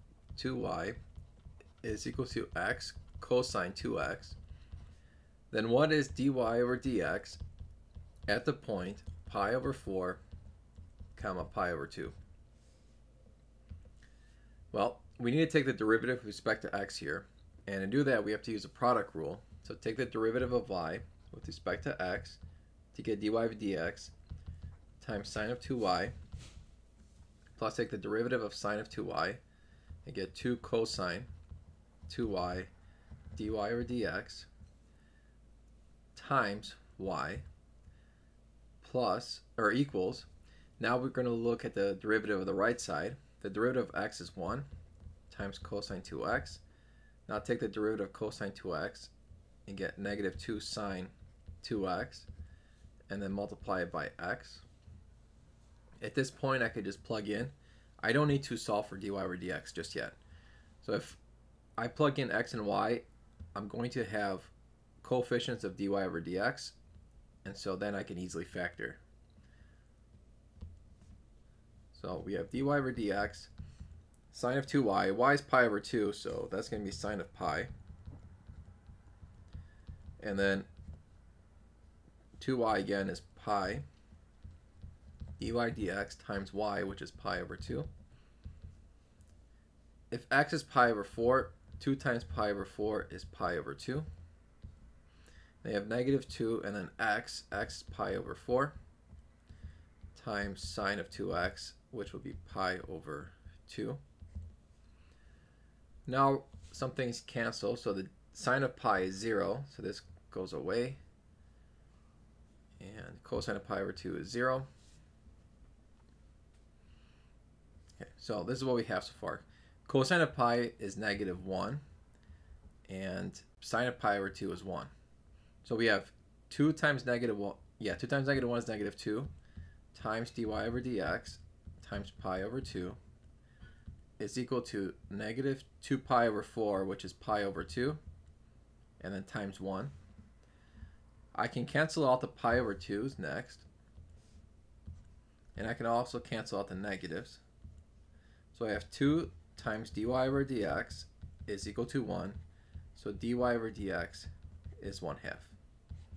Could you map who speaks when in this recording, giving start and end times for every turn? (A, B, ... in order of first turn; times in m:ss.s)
0:00.3-0:01.0 A
0:01.8-0:04.4 A
0:05.5-0:07.4 A
0:08.3-0:10.2 A
0:11.1-0:12.1 A
0:14.7-0:22.4 A
0:22.9-0:24.1 A
0:25.0-0:26.1 A
0:27.6-0:29.4 A
0:30.0-0:31.3 A
0:32.1-0:32.7 A
0:33.4-0:34.5 A
0:36.1-0:37.4 A
0:38.8-0:40.3 A
0:40.8-0:44.7 A
0:45.3-0:46.6 A
0:47.3-0:49.1 A
0:49.7-0:52.3 A
0:53.1-0:54.6 A
0:56.0-1:00.2 A
1:00.8-1:01.2 A
1:01.8-1:06.8 A
1:07.4-1:09.0 A
1:11.9-1:13.5 A
1:14.3-1:17.7 A
1:20.2-1:20.7 A
1:22.4-1:23.8 A
1:25.4-1:27.9 A
1:30.1-1:34.0 A
1:35.6-1:38.8 A
1:40.1-1:44.0 A
1:46.1-1:51.0 A
1:52.8-1:54.7 A
1:58.0-2:01.8 A
2:02.9-2:04.9 A
2:05.6-2:09.3 A
2:09.9-2:13.0 A
2:14.2-2:18.0 A
2:19.0-2:19.9 A
2:21.3-2:23.7 A
2:25.6-2:27.4 A
2:28.5-2:32.4 A
2:32.9-2:35.6 A